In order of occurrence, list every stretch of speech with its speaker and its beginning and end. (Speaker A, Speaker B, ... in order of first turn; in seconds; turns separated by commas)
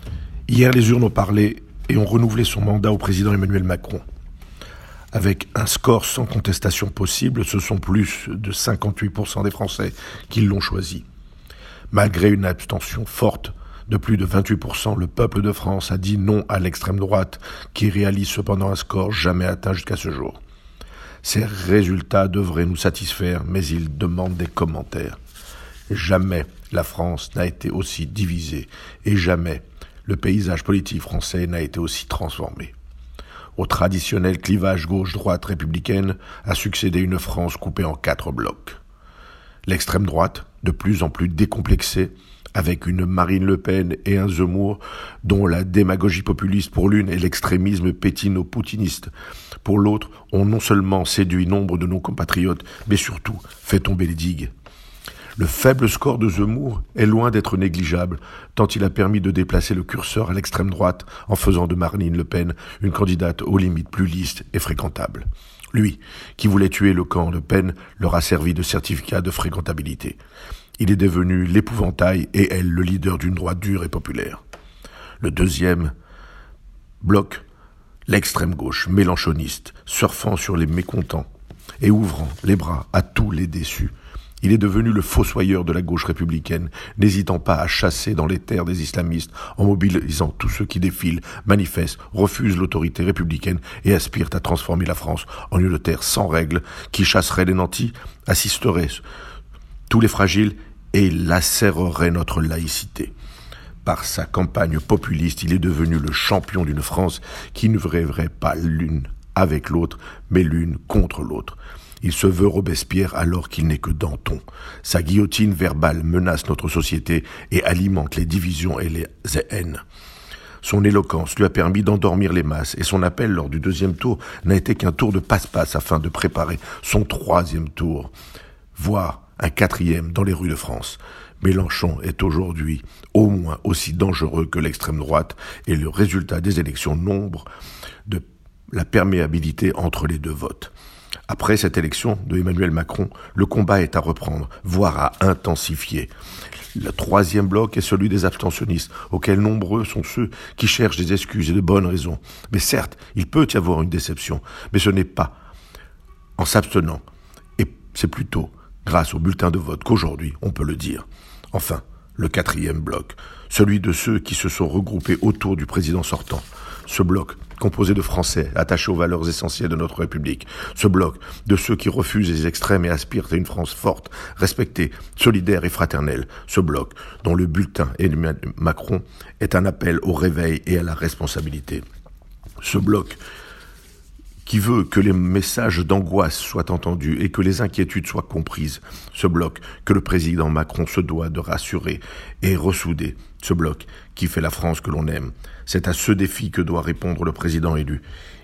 Speaker A: 0.5-4.0, Speaker A: 5.1-11.0, Speaker A: 11.9-20.4, Speaker A: 21.2-25.2, Speaker A: 25.9-32.7, Speaker A: 33.6-38.8, Speaker A: 39.7-49.1, Speaker A: 49.6-54.5, Speaker A: 55.4-70.2, Speaker A: 70.8-74.4, Speaker A: 75.2-75.9, Speaker A: 77.0-77.4, Speaker A: 78.1-81.3, Speaker A: 81.8-99.0, Speaker A: 99.9-103.1, Speaker A: 103.8-119.8, Speaker A: 120.6-128.1, Speaker A: 128.7-137.4, Speaker A: 138.1-140.7, Speaker A: 141.3-146.1, Speaker A: 146.7-155.3, Speaker A: 156.4-157.0, Speaker A: 157.6-181.8, Speaker A: 182.6-183.2, Speaker A: 184.4-198.0